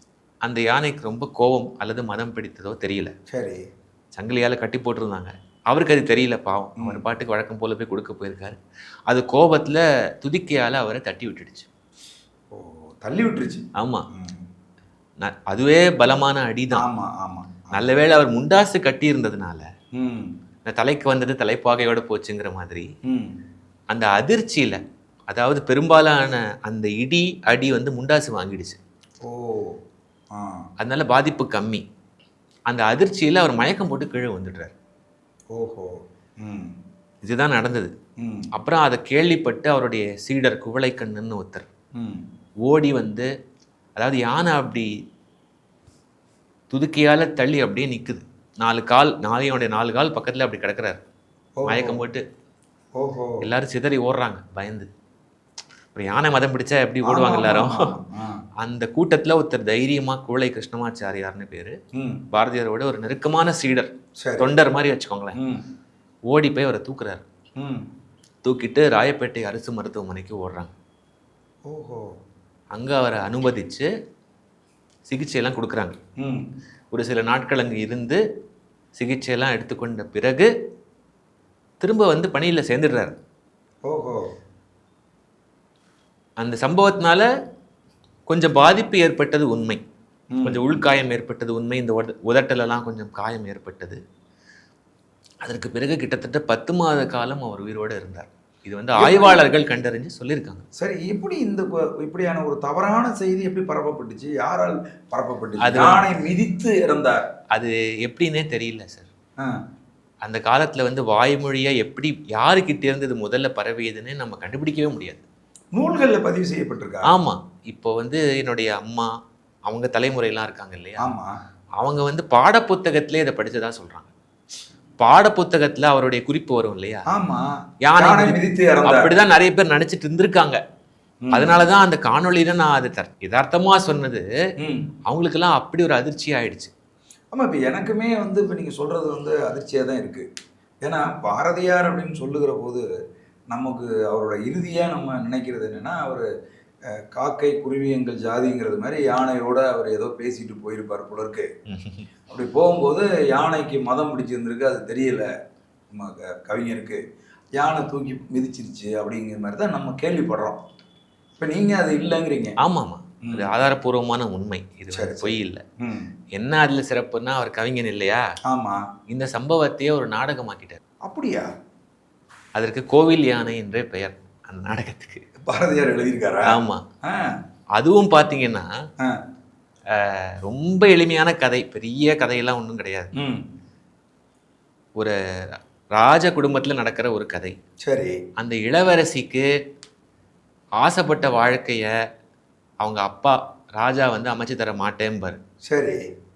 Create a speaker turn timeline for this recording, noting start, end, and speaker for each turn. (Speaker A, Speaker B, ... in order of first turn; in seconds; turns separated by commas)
Speaker A: 0.4-3.1, Speaker B: 3.3-3.6, Speaker A: 4.1-8.6, Speaker A: 9.1-11.7, Speaker B: 12.5-14.4, Speaker A: 13.7-14.1, Speaker A: 15.2-16.9, Speaker B: 16.7-17.9, Speaker A: 17.7-19.7, Speaker B: 19.9-20.3, Speaker A: 20.6-22.9, Speaker B: 23.1-23.4, Speaker A: 23.9-28.8, Speaker B: 29.2-29.8, Speaker B: 30.3-30.7, Speaker A: 30.8-31.8, Speaker A: 32.7-34.7, Speaker B: 35.5-36.8, Speaker A: 37.2-37.9, Speaker B: 38.2-38.5, Speaker A: 38.5-41.7, Speaker B: 42.0-42.2, Speaker A: 42.6-43.3, Speaker A: 44.0-44.9, Speaker A: 46.7-51.0, Speaker B: 51.6-52.0, Speaker A: 51.6-52.2, Speaker B: 52.9-53.4, Speaker A: 53.4-54.9, Speaker A: 55.9-57.9, Speaker B: 57.0-58.4, Speaker A: 58.6-61.8, Speaker B: 61.9-62.2, Speaker A: 62.3-65.4, Speaker B: 64.2-64.5, Speaker B: 65.4-65.6, Speaker A: 66.3-67.2, Speaker B: 67.6-67.9, Speaker A: 68.4-70.7, Speaker B: 71.7-72.1, Speaker A: 72.7-73.9, Speaker A: 75.1-76.0, Speaker B: 76.2-76.5, Speaker A: 76.9-78.2, Speaker A: 78.9-80.5, Speaker A: 81.8-83.2, Speaker B: 83.9-84.3, Speaker A: 86.4-87.3, Speaker A: 88.3-89.8, Speaker B: 90.3-90.8, Speaker A: 90.4-94.0, Speaker A: 95.4-100.6, Speaker B: 99.0-99.4, Speaker B: 100.8-107.2, Speaker A: 105.6-106.1, Speaker A: 107.5-109.1, Speaker A: 110.2-115.2, Speaker B: 115.7-117.2, Speaker A: 117.0-119.1, Speaker A: 119.7-121.1, Speaker B: 121.0-121.3, Speaker A: 121.8-124.1, Speaker A: 125.0-127.1, Speaker B: 127.1-129.1, Speaker A: 127.8-130.6, Speaker B: 131.2-131.6, Speaker A: 131.3-134.2, Speaker B: 134.6-134.9, Speaker A: 135.1-136.7, Speaker B: 137.3-140.3, Speaker B: 140.8-142.8, Speaker B: 143.5-146.3, Speaker B: 146.9-151.5, Speaker A: 151.7-152.1, Speaker B: 152.3-155.3, Speaker B: 155.9-157.0, Speaker B: 157.6-160.6, Speaker B: 161.4-162.5, Speaker A: 162.6-165.6, Speaker B: 163.2-163.5, Speaker B: 164.9-166.1, Speaker A: 166.3-168.2, Speaker B: 168.5-168.8, Speaker A: 169.1-170.8, Speaker B: 171.0-171.5, Speaker A: 172.6-175.2, Speaker B: 175.4-177.3, Speaker A: 176.4-176.8, Speaker A: 177.7-178.7, Speaker A: 179.9-183.1, Speaker B: 183.2-183.5, Speaker A: 185.9-187.5, Speaker B: 187.8-188.2, Speaker A: 188.4-189.5, Speaker A: 190.8-191.9, Speaker A: 192.8-195.4, Speaker B: 195.7-196.0